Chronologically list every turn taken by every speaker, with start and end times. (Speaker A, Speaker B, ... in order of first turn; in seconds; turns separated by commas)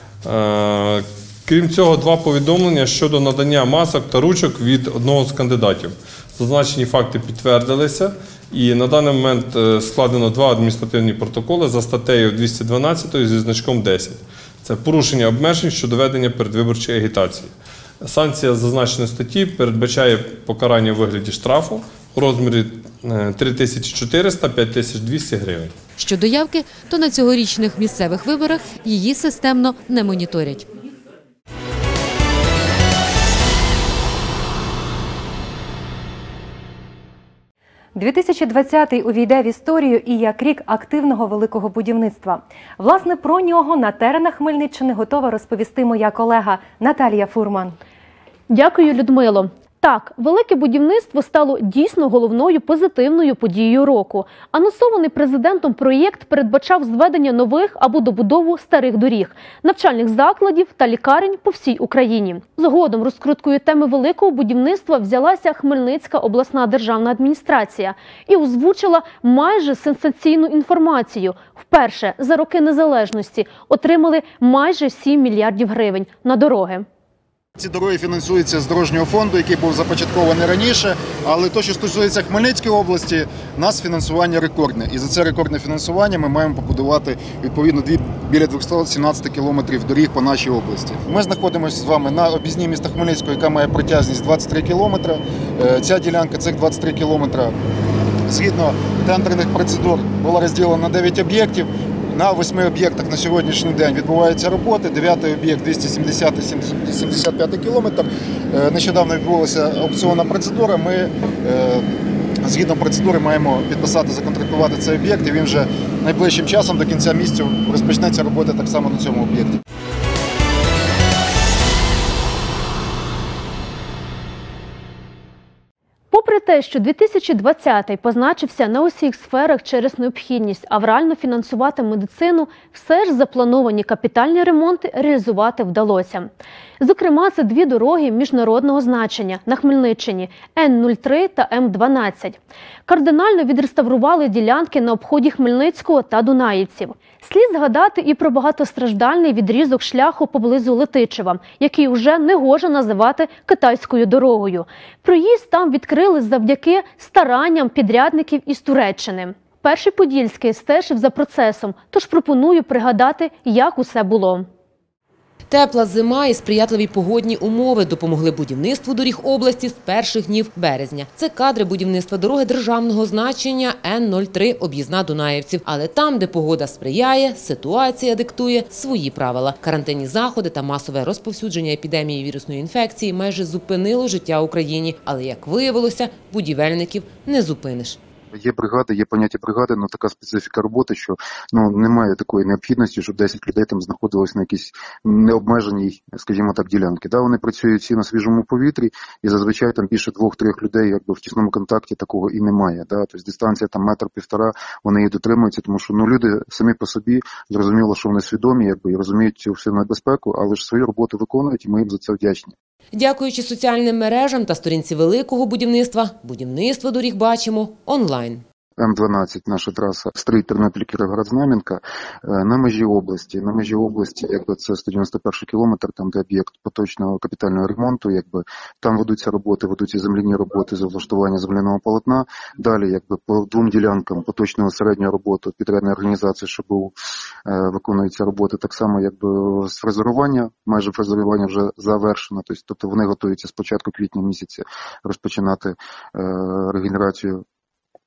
Speaker A: 0.2-17.5, Speaker A: 18.0-25.7, Speaker B: 26.0-30.7, Speaker C: 37.9-47.8, Speaker D: 48.5-76.8, Speaker E: 77.6-97.6, Speaker E: 98.3-111.8, Speaker E: 112.4-119.6, Speaker D: 126.1-164.5, Speaker F: 165.5-188.0, Speaker G: 188.3-212.5, Speaker F: 212.9-218.4, Speaker G: 218.8-236.9, Speaker G: 237.5-247.4